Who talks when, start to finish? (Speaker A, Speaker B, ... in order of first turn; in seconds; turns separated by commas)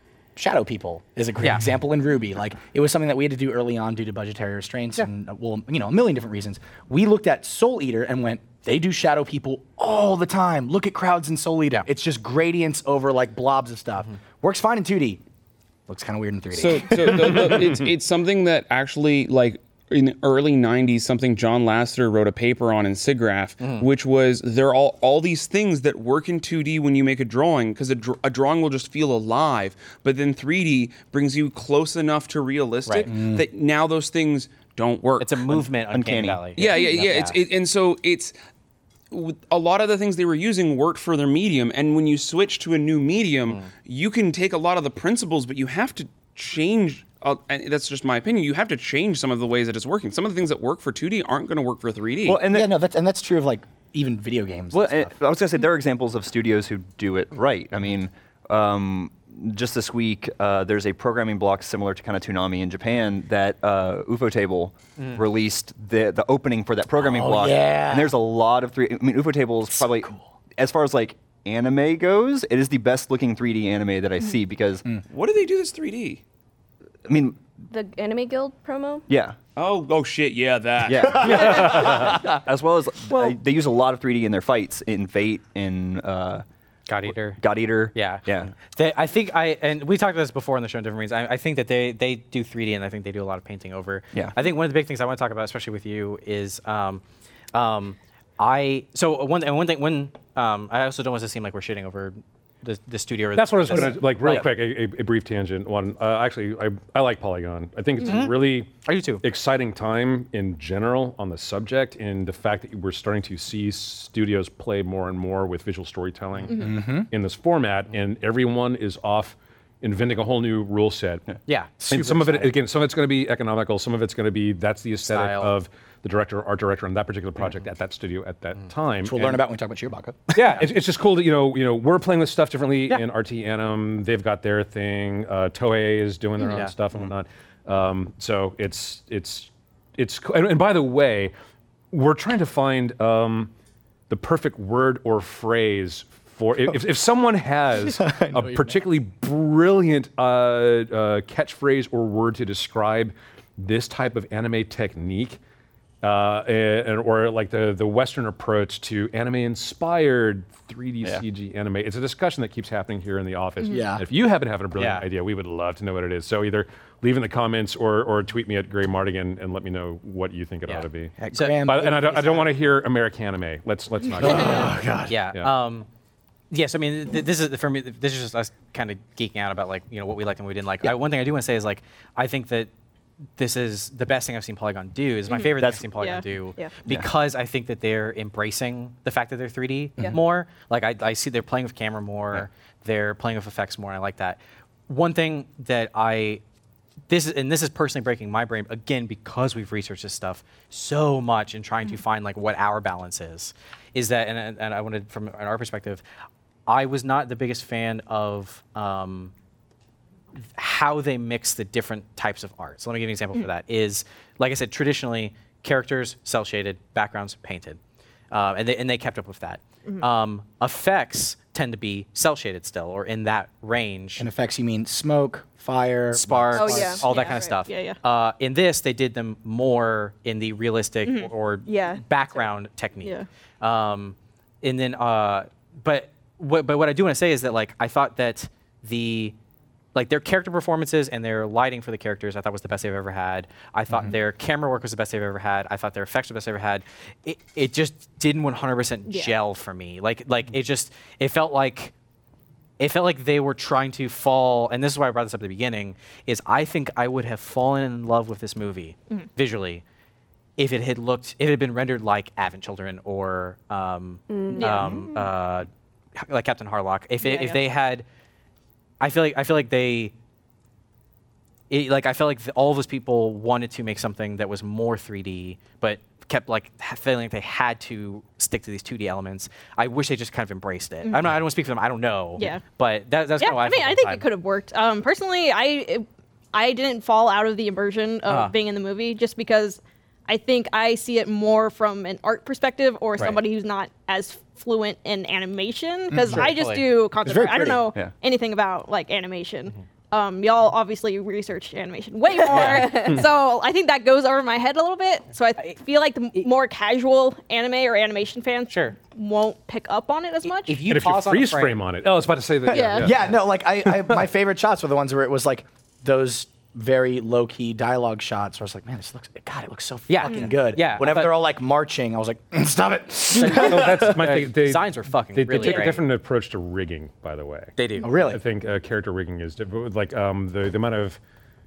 Speaker A: 0.4-15.2, Speaker B: 1.4-1.7, Speaker A: 15.9-17.8, Speaker C: 16.5-35.4, Speaker B: 23.6-23.9, Speaker B: 32.9-33.1, Speaker A: 33.1-33.5, Speaker B: 35.2-37.4, Speaker D: 35.9-36.4, Speaker C: 36.6-38.4, Speaker C: 39.1-52.4, Speaker D: 52.2-52.8, Speaker A: 52.5-55.1, Speaker D: 54.7-74.9, Speaker A: 67.0-68.2, Speaker A: 69.8-70.3, Speaker C: 75.1-76.2, Speaker D: 77.1-77.4, Speaker E: 77.7-79.0, Speaker D: 79.1-79.4, Speaker C: 79.6-81.7, Speaker D: 80.8-86.5, Speaker F: 81.3-82.1, Speaker E: 81.7-82.2, Speaker B: 86.9-87.4, Speaker D: 87.1-88.5, Speaker B: 87.9-97.0, Speaker B: 97.5-104.5, Speaker F: 103.4-121.3, Speaker B: 108.0-109.2, Speaker A: 116.5-117.1, Speaker B: 121.5-122.5, Speaker A: 121.8-122.5, Speaker F: 121.9-129.4, Speaker B: 125.0-125.5, Speaker A: 129.0-130.5, Speaker F: 130.3-141.3, Speaker B: 136.4-136.7, Speaker F: 141.9-143.5, Speaker F: 144.1-155.4, Speaker A: 147.8-148.8, Speaker F: 156.0-174.8, Speaker A: 163.7-164.1, Speaker B: 164.8-165.1, Speaker B: 170.7-172.4, Speaker A: 171.2-172.4, Speaker A: 174.2-175.2, Speaker B: 175.1-175.9, Speaker B: 176.5-182.7, Speaker B: 183.4-196.4, Speaker G: 185.3-186.2, Speaker D: 185.6-185.8, Speaker B: 197.1-206.0, Speaker B: 206.7-209.3, Speaker B: 210.6-217.8, Speaker B: 218.3-224.3, Speaker A: 224.2-227.0, Speaker B: 226.1-239.4, Speaker E: 226.6-227.7, Speaker G: 226.7-228.0, Speaker E: 231.7-232.0, Speaker B: 239.9-251.9, Speaker G: 249.1-249.3, Speaker B: 252.8-259.8, Speaker B: 260.6-268.1, Speaker E: 264.3-264.9, Speaker G: 264.5-265.3, Speaker B: 269.0-270.1, Speaker B: 271.7-284.2, Speaker G: 281.0-281.4, Speaker G: 282.4-282.6, Speaker G: 283.4-310.9, Speaker B: 288.3-288.5, Speaker A: 296.1-296.5, Speaker B: 296.3-296.9, Speaker A: 297.2-297.8, Speaker B: 302.5-303.2, Speaker B: 308.7-309.0, Speaker B: 310.4-311.8, Speaker F: 310.9-313.2, Speaker G: 312.7-313.1, Speaker A: 313.0-324.1, Speaker B: 320.1-321.3, Speaker B: 323.3-326.1, Speaker F: 323.4-331.2, Speaker G: 325.6-325.9, Speaker B: 327.8-328.1, Speaker A: 328.0-328.4